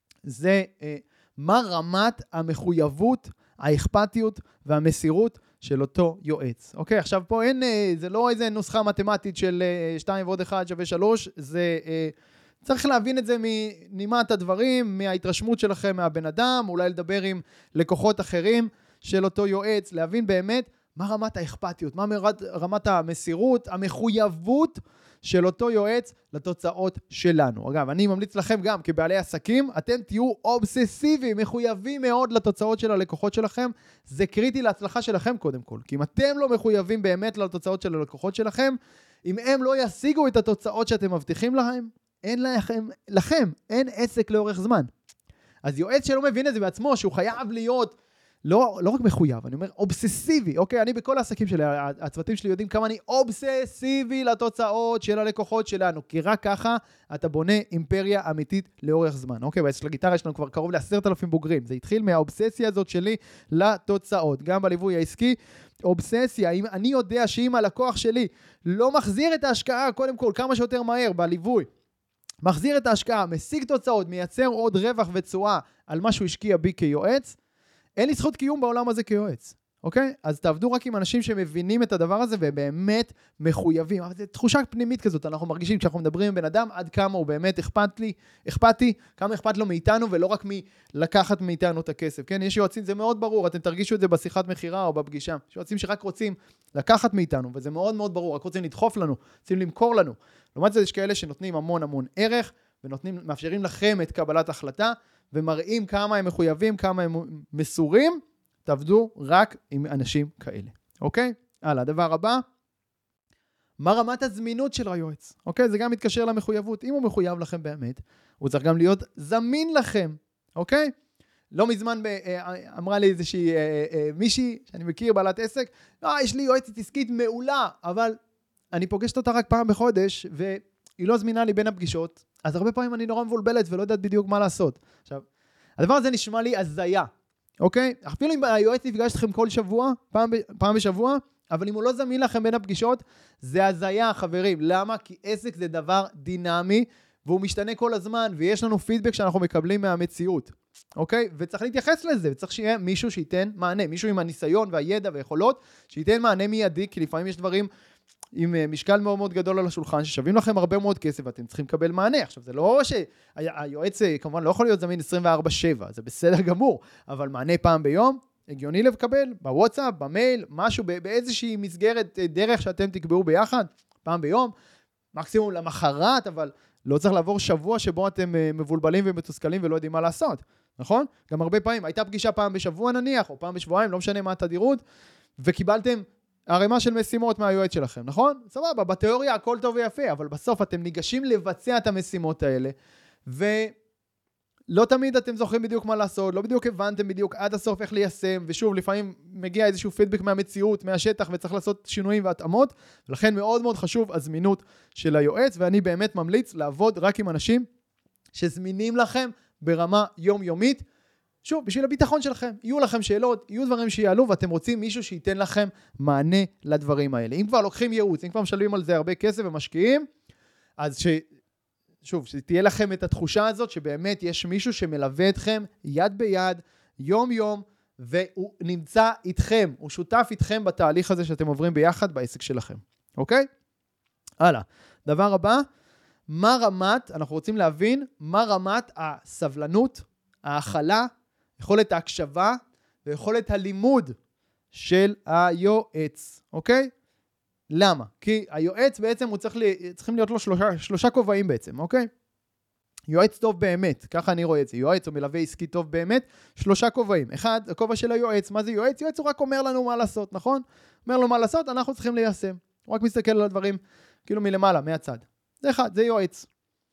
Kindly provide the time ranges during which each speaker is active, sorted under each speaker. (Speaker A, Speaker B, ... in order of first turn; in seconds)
Speaker A: 0.2-44.9, 45.6-71.7, 72.4-77.3, 78.0-112.4, 113.8-120.9, 121.5-128.2, 128.7-135.2, 135.8-137.1, 137.6-157.7, 158.4-174.5, 175.1-184.8, 185.4-192.8, 193.3-193.8, 194.7-207.7, 208.3-210.8, 211.4-220.1, 220.8-221.3, 222.0-233.5, 234.4-235.6, 236.3-244.2, 244.7-246.9, 247.7-252.1, 253.1-266.5